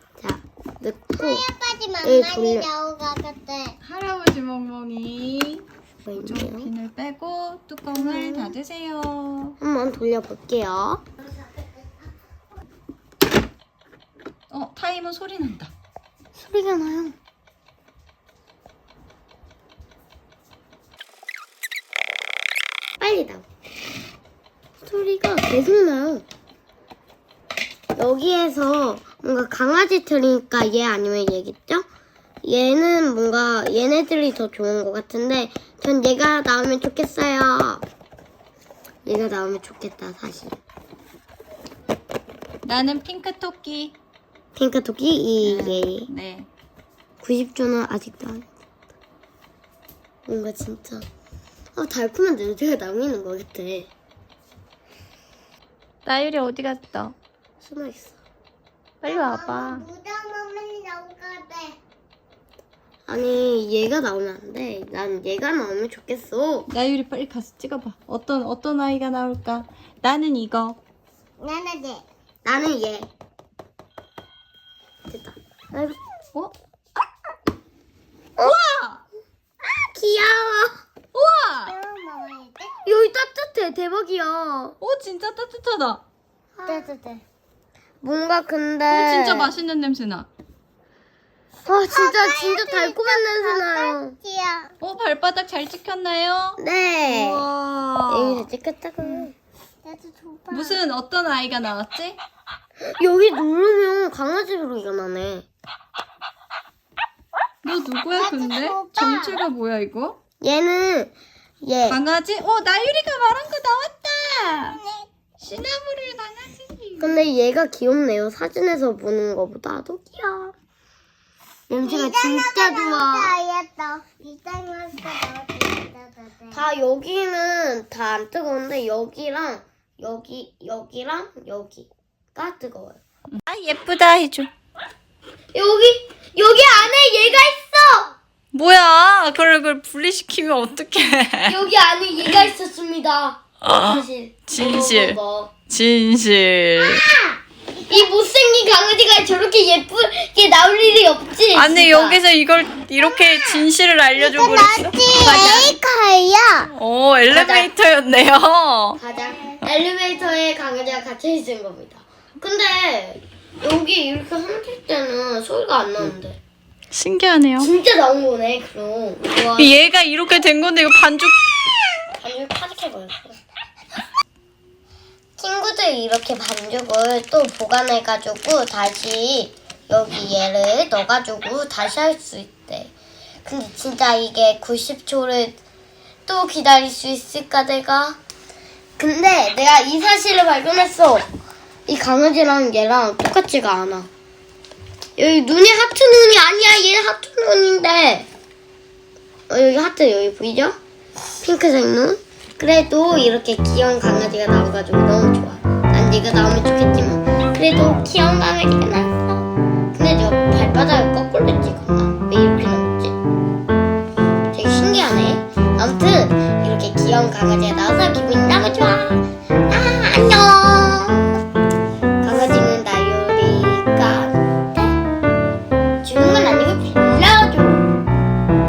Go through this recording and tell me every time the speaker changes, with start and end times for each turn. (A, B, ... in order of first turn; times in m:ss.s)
0:00.2-0:01.4 A
0:01.2-0:03.8 B
0:02.0-0:02.7 A
0:03.8-0:09.6 C
0:06.0-0:06.7 A
0:07.9-0:08.5 A
0:09.6-0:11.0 A
0:14.5-0:15.7 C
0:16.4-0:17.2 A
0:23.0-0:23.4 A
0:24.8-0:26.2 A
0:28.0-0:31.8 A
0:32.4-0:37.8 A
0:39.0-0:40.6 A
0:42.6-0:43.9 C
0:44.5-0:46.1 A
0:45.4-0:46.5 C
0:47.2-0:48.4 A
0:50.2-0:51.0 A
0:51.8-0:53.9 A
0:56.0-0:57.1 C
0:57.6-0:58.2 A
0:59.0-0:59.8 C
0:59.0-1:01.8 B
1:03.1-1:06.7 A
1:06.7-1:10.8 C
1:11.4-1:12.0 B
1:12.4-1:13.1 A
1:15.1-1:16.0 A
1:18.4-1:19.0 C
1:19.6-1:20.8 A
1:21.1-1:21.7 C
1:21.6-1:22.9 B
1:22.8-1:24.8 A
1:24.8-1:26.0 C
1:26.6-1:27.2 A
1:26.6-1:27.0 B
1:28.0-1:29.5 A
1:28.9-1:30.3 C
1:31.6-1:34.1 A
1:31.6-1:34.7 B
1:34.8-1:38.5 C
1:36.6-1:37.4 A
1:38.1-1:39.3 A
1:39.8-1:40.8 B
1:40.5-1:42.2 C
1:42.8-1:45.4 A
1:47.6-1:50.2 C
1:48.1-1:49.4 B
1:50.4-1:52.0 A
1:51.9-1:54.8 C
1:54.7-1:55.1 B
1:55.4-1:57.2 C
1:57.0-2:00.5 A
2:01.7-2:03.3 A
2:01.8-2:06.6 B
2:06.5-2:13.0 A
2:13.4-2:14.5 C
2:15.5-2:18.2 A
2:18.5-2:21.6 C
2:21.4-2:25.5 A
2:23.6-2:25.2 C
2:25.7-2:27.1 C
2:26.8-2:27.4 B
2:27.9-2:32.2 A
2:31.5-2:35.8 C
2:33.2-2:33.6 B
2:34.2-2:36.7 B
2:36.7-2:39.0 C
2:37.3-2:37.7 A
2:39.0-2:46.4 A
2:46.9-2:47.7 C
2:47.6-2:49.7 A
2:49.6-2:51.4 C
2:52.2-2:53.4 A
2:55.4-3:02.9 A
3:03.4-3:05.6 A
3:06.3-3:08.2 A
3:09.0-3:11.2 A
3:11.9-3:14.1 A
3:15.2-3:18.3 A
3:19.5-3:20.8 A
3:21.4-3:33.1 A
3:34.5-3:41.3 A
3:42.2-3:44.9 A
3:46.0-3:47.8 A